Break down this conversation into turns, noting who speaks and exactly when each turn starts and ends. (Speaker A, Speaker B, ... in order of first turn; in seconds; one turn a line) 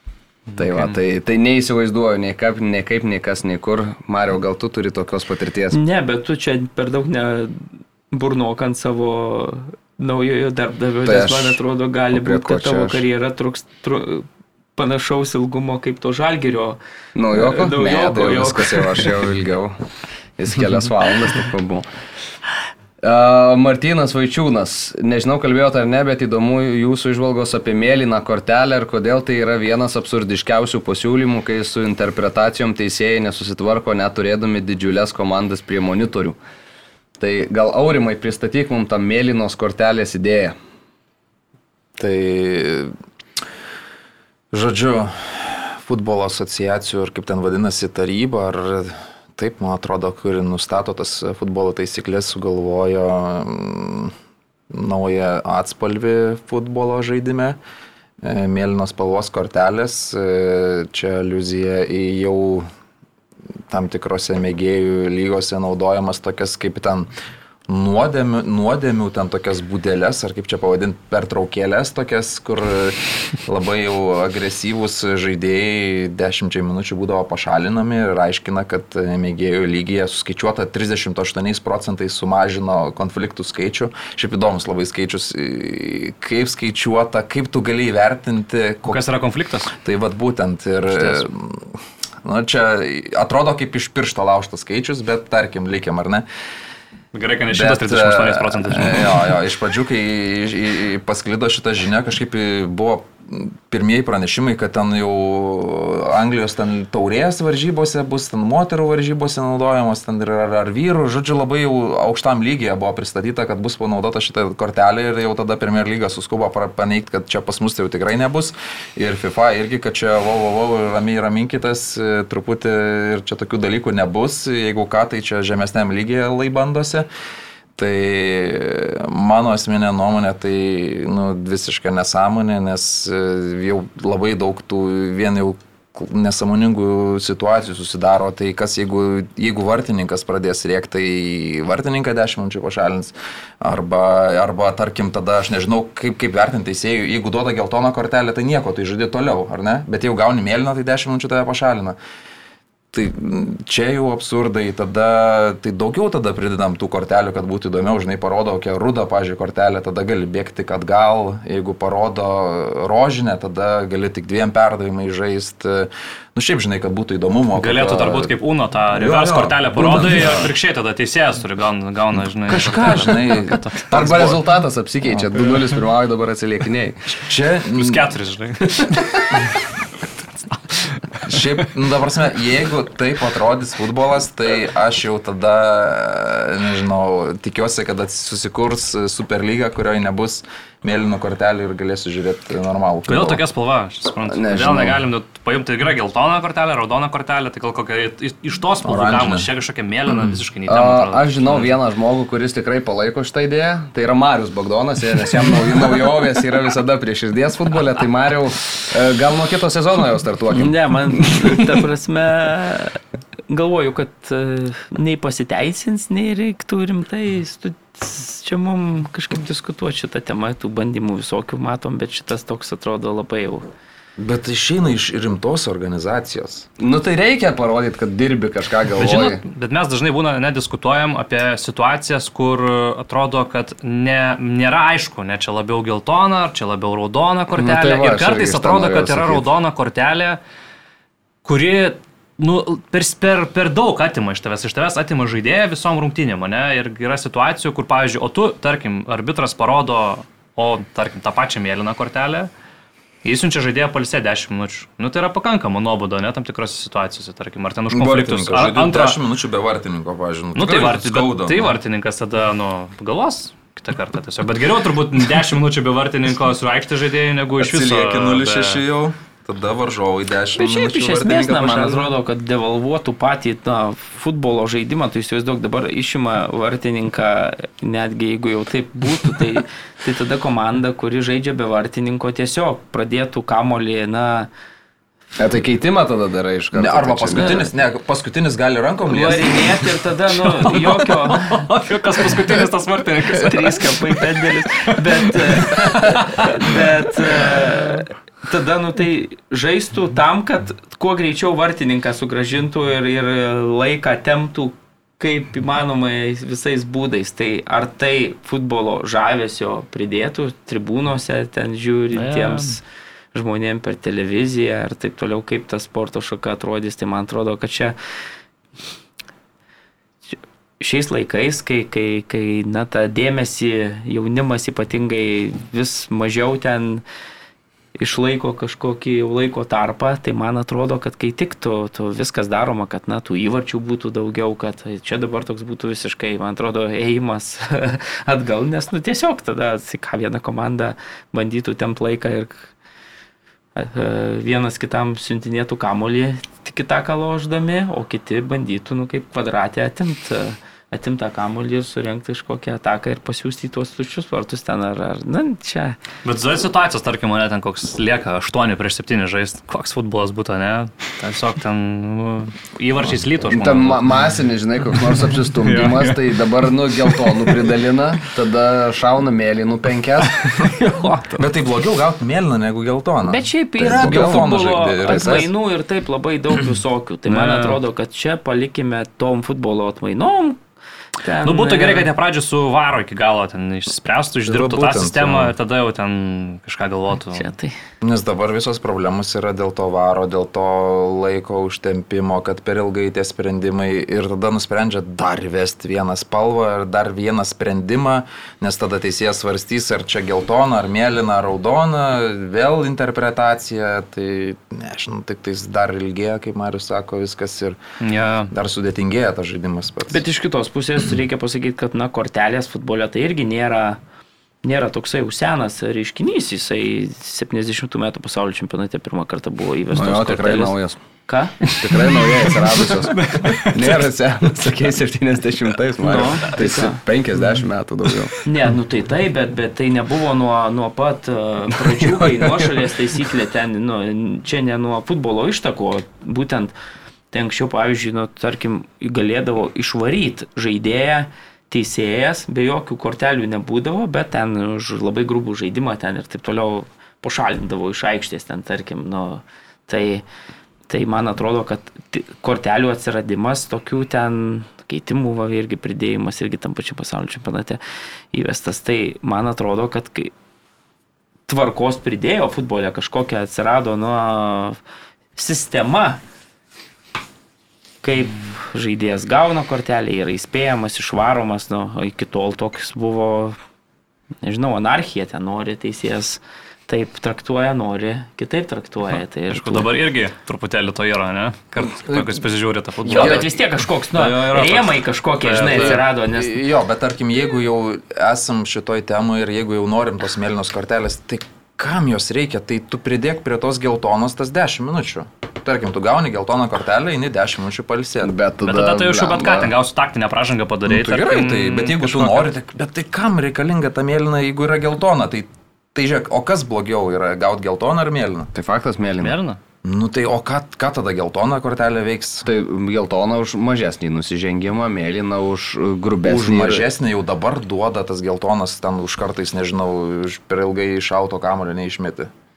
Speaker A: 0.5-0.9
Speaker B: 0.6-5.8
Speaker C: 5.7-16.8
Speaker B: 11.0-11.6
Speaker B: 12.1-13.0
Speaker B: 17.1-19.8
Speaker C: 17.3-19.1
Speaker B: 20.4-21.8
Speaker B: 23.0-36.4
Speaker B: 37.2-40.5
Speaker D: 42.0-42.9
Speaker D: 44.5-54.1
Speaker D: 54.7-57.6
Speaker D: 58.2-62.7
Speaker D: 63.7-67.1
Speaker D: 67.7-89.0
Speaker A: 88.9-89.7
Speaker D: 89.8-96.2
Speaker A: 90.9-91.2
Speaker A: 97.1-99.3
Speaker D: 97.5-127.0
Speaker D: 127.8-151.9
Speaker D: 152.9-168.3
Speaker A: 167.5-173.8
Speaker D: 168.9-170.5
Speaker B: 169.8-170.4
Speaker D: 172.5-174.4
Speaker B: 173.9-177.0
Speaker D: 175.1-175.5
Speaker D: 177.1-178.0
Speaker A: 177.8-179.5
Speaker A: 180.7-181.4
Speaker D: 181.2-193.4
Speaker A: 193.1-201.7
Speaker B: 194.3-195.0
Speaker D: 198.8-199.5
Speaker B: 200.7-211.6
Speaker C: 210.5-223.7
Speaker D: 224.2-226.7
Speaker B: 226.8-229.4
Speaker A: 229.0-240.4
Speaker B: 237.5-239.4
Speaker A: 241.4-252.5
Speaker A: 253.2-259.2
Speaker D: 257.9-261.7
Speaker A: 260.5-268.8
Speaker D: 267.6-272.1
Speaker C: 270.6-284.5
Speaker B: 285.4-287.7
Speaker D: 286.7-289.9
Speaker C: 289.1-291.5
Speaker A: 290.5-297.7
Speaker C: 293.4-312.8
Speaker A: 312.1-312.7
Speaker C: 313.3-317.9
Speaker C: 320.3-327.0
Speaker C: 328.0-342.7
Speaker C: 343.8-356.0
Speaker A: 356.2-364.2
Speaker B: 363.5-370.5
Speaker A: 365.6-366.2
Speaker A: 367.0-367.5
Speaker A: 370.2-371.0
Speaker C: 370.9-371.3
Speaker D: 371.4-375.5
Speaker C: 373.2-380.6
Speaker B: 373.8-374.5
Speaker B: 375.0-375.4
Speaker A: 377.3-377.8
Speaker C: 381.2-382.1
Speaker A: 381.4-387.5
Speaker D: 384.4-385.5
Speaker C: 387.3-387.8
Speaker D: 388.0-407.8
Speaker A: 408.0-408.5
Speaker D: 408.5-410.2
Speaker C: 410.1-414.0
Speaker C: 414.6-420.7
Speaker B: 419.9-421.0
Speaker C: 421.3-421.5
Speaker A: 421.6-423.9
Speaker B: 421.8-428.3
Speaker C: 426.0-427.0
Speaker C: 428.4-436.7
Speaker C: 437.3-450.2
Speaker C: 450.9-457.8
Speaker C: 458.3-460.3
Speaker C: 461.5-464.8
Speaker C: 465.4-466.2
Speaker C: 468.0-473.6
Speaker C: 474.4-479.9
Speaker A: 479.5-483.5
Speaker D: 482.1-482.4
Speaker D: 483.1-483.4
Speaker C: 483.1-486.6
Speaker A: 484.1-486.0
Speaker D: 485.7-498.3
Speaker B: 498.2-499.7
Speaker A: 498.6-502.5
Speaker D: 500.9-508.5
Speaker B: 508.5-509.4
Speaker A: 509.2-509.6
Speaker D: 509.8-512.5
Speaker B: 512.4-516.9
Speaker D: 516.2-522.3